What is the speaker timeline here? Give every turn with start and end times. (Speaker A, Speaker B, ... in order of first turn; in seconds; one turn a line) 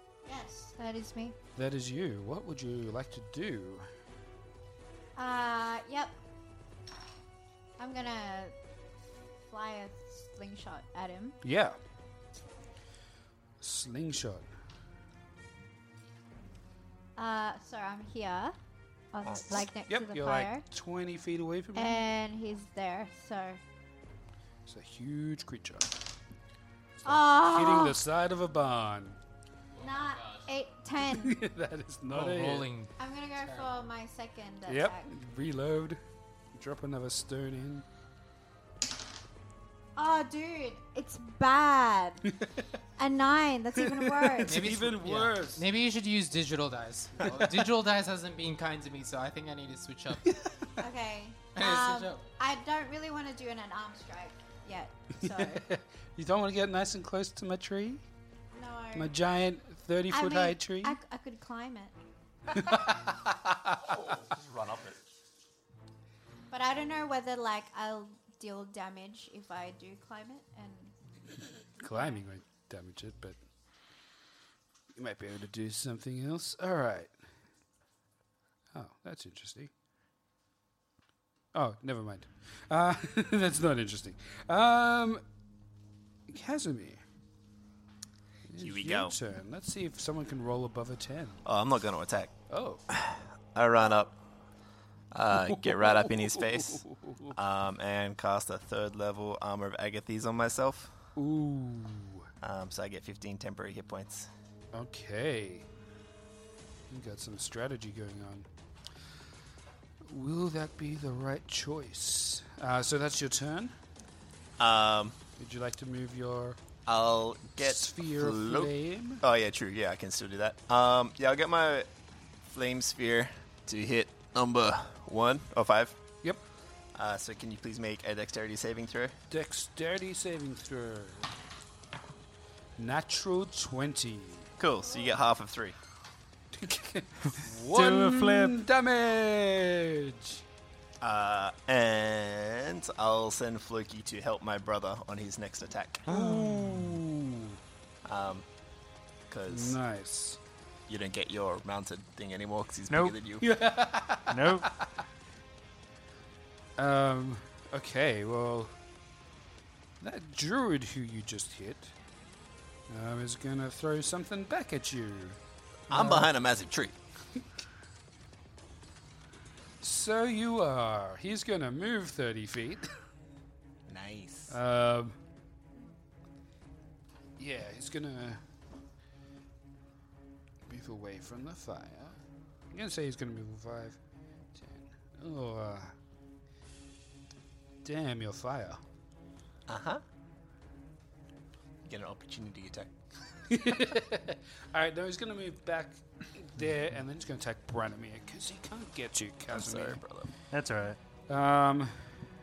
Speaker A: 0.2-1.4
Speaker B: 1.6-3.9
Speaker A: 5.2-6.1
Speaker A: 7.8-8.5
Speaker A: 9.5-11.4
Speaker B: 11.4-11.8
Speaker B: 13.6-14.5
Speaker A: 17.2-18.6
Speaker A: 19.1-20.6
Speaker C: 19.3-19.6
Speaker B: 19.9-22.0
Speaker A: 21.7-23.6
Speaker B: 24.6-26.0
Speaker B: 27.0-29.2
Speaker A: 27.0-28.0
Speaker D: 29.7-30.5
Speaker A: 29.8-31.4
Speaker B: 31.0-32.7
Speaker D: 32.1-33.7
Speaker A: 33.0-35.1
Speaker B: 34.6-36.0
Speaker B: 36.5-37.9
Speaker A: 40.0-42.3
Speaker A: 43.0-44.5
Speaker B: 43.8-45.6
Speaker D: 44.5-50.4
Speaker B: 47.2-47.5
Speaker A: 50.8-55.6
Speaker D: 51.5-52.2
Speaker B: 55.2-58.0
Speaker A: 58.5-59.1
Speaker B: 58.9-61.0
Speaker A: 60.1-61.9
Speaker B: 62.5-63.7
Speaker C: 63.8-65.0
Speaker A: 66.5-70.9
Speaker B: 71.8-73.4
Speaker B: 74.9-77.1
Speaker B: 78.7-79.7
Speaker B: 81.5-85.2
Speaker B: 86.3-87.0
Speaker B: 88.5-91.4
Speaker C: 88.6-89.1
Speaker C: 91.4-92.3
Speaker B: 92.5-92.8
Speaker C: 92.9-94.1
Speaker C: 95.1-100.9
Speaker B: 95.5-97.3
Speaker B: 101.2-102.3
Speaker C: 102.4-104.3
Speaker B: 104.7-105.7
Speaker B: 106.9-108.5
Speaker B: 110.0-113.7
Speaker C: 114.6-115.2
Speaker B: 115.4-116.6
Speaker C: 116.8-121.9
Speaker B: 117.6-119.2
Speaker C: 122.5-126.0
Speaker C: 126.9-129.1
Speaker B: 129.3-131.3
Speaker B: 132.8-134.5
Speaker C: 134.6-135.8
Speaker B: 136.5-140.4
Speaker E: 137.6-138.6
Speaker C: 141.0-146.1
Speaker B: 146.1-147.6
Speaker E: 146.1-146.9
Speaker C: 148.0-148.4
Speaker C: 149.3-149.8
Speaker B: 149.5-150.4
Speaker C: 150.9-153.4
Speaker E: 152.9-153.2
Speaker B: 153.4-154.8
Speaker E: 154.3-154.7
Speaker B: 156.8-158.8
Speaker B: 160.0-161.9
Speaker B: 162.9-166.3
Speaker C: 165.9-166.9
Speaker B: 169.8-172.9
Speaker C: 173.9-174.5
Speaker B: 174.5-175.2
Speaker B: 177.4-178.4
Speaker B: 180.7-182.2
Speaker B: 182.7-184.0
Speaker B: 184.5-185.9
Speaker B: 187.8-188.8
Speaker C: 189.7-190.0
Speaker C: 191.9-192.9
Speaker B: 193.5-200.0
Speaker C: 199.5-200.3
Speaker E: 200.5-201.0
Speaker B: 201.3-202.1